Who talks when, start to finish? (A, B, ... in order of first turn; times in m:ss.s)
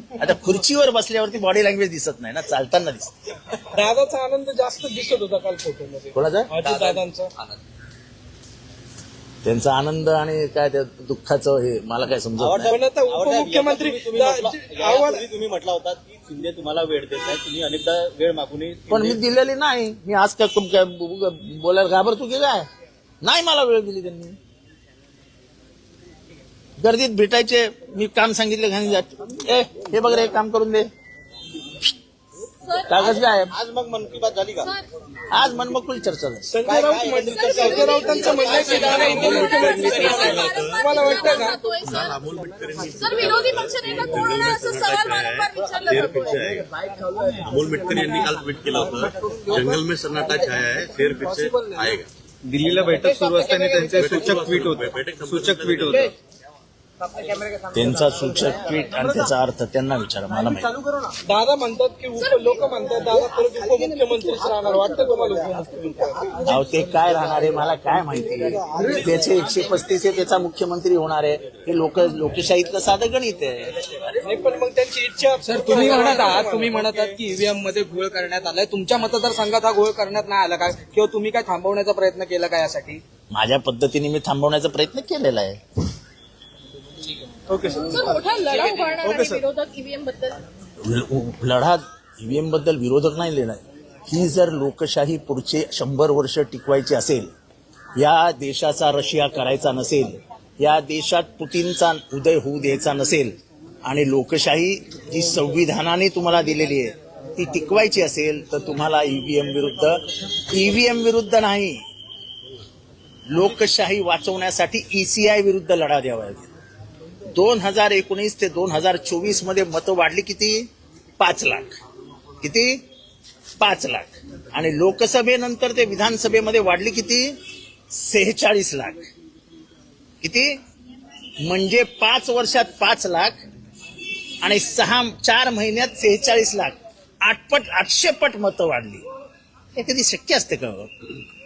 0:00.2-0:03.1 A
0:03.7-0:07.3 B
0:06.1-0:06.5 A
0:06.6-0:07.6 C
0:09.4-0:12.8 A
0:12.4-0:19.2 D
0:12.7-0:15.3 B
0:18.9-0:22.7 A
0:23.2-0:24.4 A
0:26.8-0:30.9 A
0:32.6-0:33.2 E
0:32.9-0:33.5 A
0:33.5-0:34.7 D
0:34.6-0:34.9 E
0:35.3-0:36.5 A
0:36.5-0:41.6 B
0:36.7-0:40.4 D
0:37.0-0:42.3 E
0:38.8-0:39.3 F
0:40.2-0:40.8 C
0:41.9-0:46.6 C
0:43.0-0:46.6 E
0:47.2-0:48.3 G
0:47.5-0:52.1 C
0:49.0-0:49.6 G
0:52.4-0:56.1 G
0:54.0-0:56.0 C
0:57.7-1:00.7 A
1:01.2-1:06.3 B
1:02.2-1:02.6 E
1:04.1-1:05.2 G
1:06.4-1:13.7 A
1:14.2-1:16.8 B
1:15.4-1:23.0 F
1:23.3-1:25.6 A
1:27.5-1:28.2 D
1:27.9-1:30.4 E
1:28.5-1:28.8 F
1:29.0-1:29.4 D
1:30.8-1:37.3 A
1:38.0-1:51.8 A
1:53.3-1:56.5 A
1:57.3-2:00.7 A
2:01.2-2:01.8 A
2:02.4-2:02.8 A
2:03.6-2:07.4 A
2:07.9-2:09.0 A
2:10.2-2:10.5 A
2:11.4-2:13.4 A
2:14.4-2:19.0 A
2:19.8-2:20.9 A